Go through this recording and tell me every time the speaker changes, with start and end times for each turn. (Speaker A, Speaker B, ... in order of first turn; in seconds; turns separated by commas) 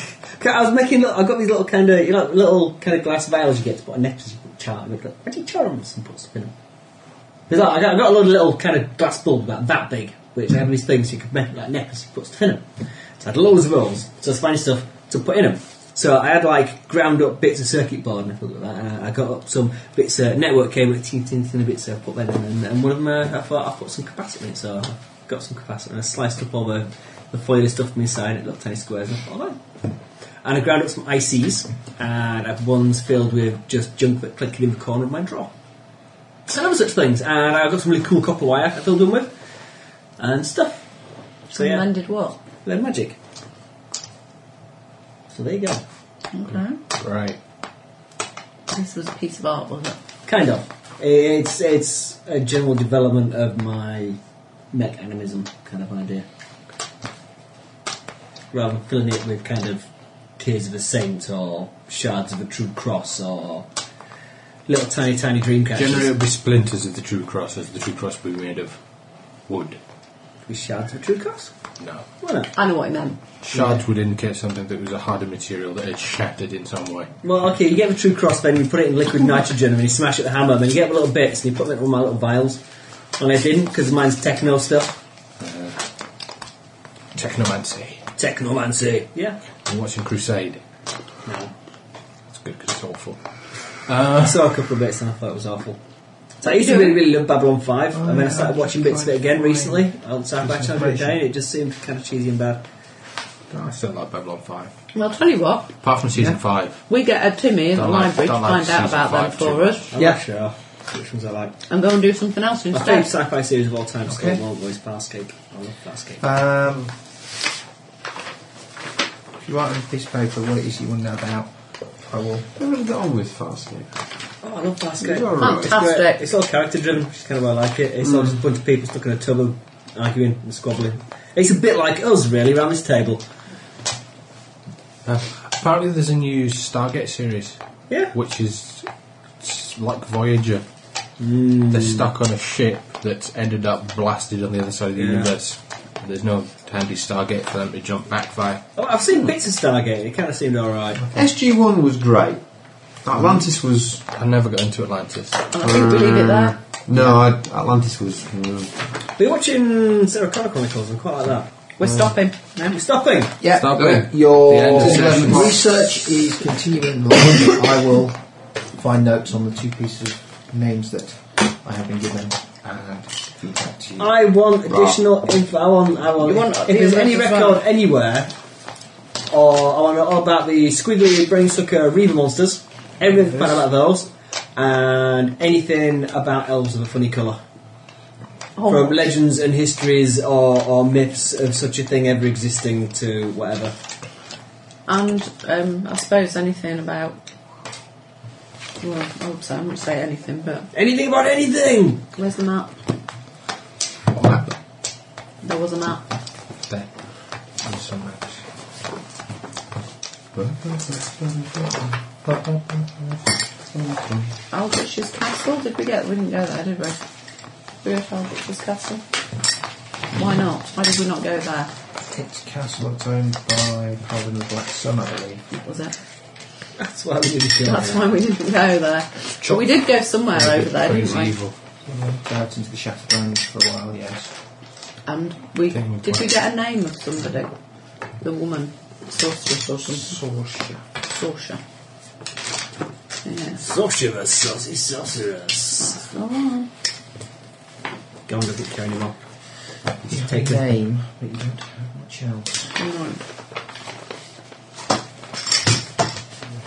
Speaker A: 0.3-6.5, Speaker A: 7.5-29.8, Speaker A: 30.4-35.5, Speaker A: 36.5-39.3, Speaker A: 40.2-40.9, Speaker A: 41.5-41.9, Speaker B: 41.5-42.4, Speaker A: 42.6-43.2, Speaker A: 45.3-45.8, Speaker B: 46.3-46.8, Speaker C: 46.9-47.4, Speaker B: 48.7-50.0, Speaker A: 50.2-54.2, Speaker A: 54.7-56.3, Speaker A: 58.5-63.7, Speaker A: 64.7-66.1, Speaker C: 65.8-68.8, Speaker C: 69.5-69.8, Speaker A: 70.5-71.5, Speaker C: 71.8-72.0, Speaker A: 72.2-72.5, Speaker B: 72.5-73.2, Speaker C: 73.4-77.1, Speaker A: 73.5-73.8, Speaker A: 77.2-82.6, Speaker A: 83.2-85.0, Speaker C: 85.4-85.8, Speaker C: 87.2-88.1, Speaker A: 88.2-89.4, Speaker C: 89.6-90.6, Speaker A: 91.2-91.5, Speaker C: 92.3-94.4, Speaker A: 94.2-95.8, Speaker A: 96.4-102.6, Speaker B: 96.4-97.0, Speaker D: 97.9-101.2, Speaker C: 103.5-104.7, Speaker B: 104.9-105.8, Speaker C: 105.8-106.8, Speaker B: 106.9-109.9, Speaker C: 107.8-110.0, Speaker A: 109.9-111.5, Speaker B: 111.7-113.1, Speaker A: 112.7-116.2, Speaker D: 114.1-114.4, Speaker D: 116.2-116.9, Speaker D: 119.4-122.5, Speaker E: 122.6-123.9, Speaker A: 124.4-133.2, Speaker E: 125.0-125.8, Speaker B: 125.4-126.3, Speaker C: 135.1-137.6, Speaker C: 138.1-138.9, Speaker C: 139.4-140.7, Speaker A: 141.2-142.1, Speaker C: 141.7-148.6, Speaker A: 144.9-145.3, Speaker A: 148.8-151.1, Speaker E: 151.1-152.4, Speaker E: 153.0-154.0, Speaker C: 154.1-155.5, Speaker B: 155.5-156.6, Speaker E: 155.6-158.8, Speaker A: 159.2-161.5, Speaker B: 161.8-162.8, Speaker A: 162.7-163.4, Speaker D: 163.4-174.1, Speaker C: 163.5-165.6, Speaker E: 163.8-164.1, Speaker E: 164.6-165.6, Speaker A: 174.0-178.3, Speaker E: 174.7-175.0, Speaker B: 176.2-177.6, Speaker A: 179.3-187.4, Speaker B: 188.6-189.1, Speaker A: 188.7-193.8, Speaker B: 194.9-197.2, Speaker B: 198.8-200.7, Speaker A: 200.7-202.1, Speaker B: 202.2-202.8, Speaker C: 204.2-204.5, Speaker B: 205.4-206.1, Speaker C: 206.7-208.4, Speaker E: 210.3-212.9, Speaker E: 213.7-214.3, Speaker B: 214.5-217.0, Speaker B: 217.8-219.0, Speaker B: 220.1-221.7, Speaker D: 222.0-225.5, Speaker B: 225.5-226.0, Speaker A: 226.8-228.1, Speaker B: 227.7-231.3, Speaker C: 229.4-229.8, Speaker C: 230.3-231.6, Speaker D: 231.9-234.3, Speaker B: 235.1-237.5, Speaker C: 235.7-236.3, Speaker B: 238.2-240.2, Speaker D: 239.8-240.8, Speaker B: 241.1-241.6, Speaker B: 243.2-243.6, Speaker A: 243.6-246.0, Speaker B: 245.9-246.7, Speaker A: 248.3-249.2, Speaker D: 250.1-252.7, Speaker A: 250.1-250.6, Speaker B: 252.8-253.2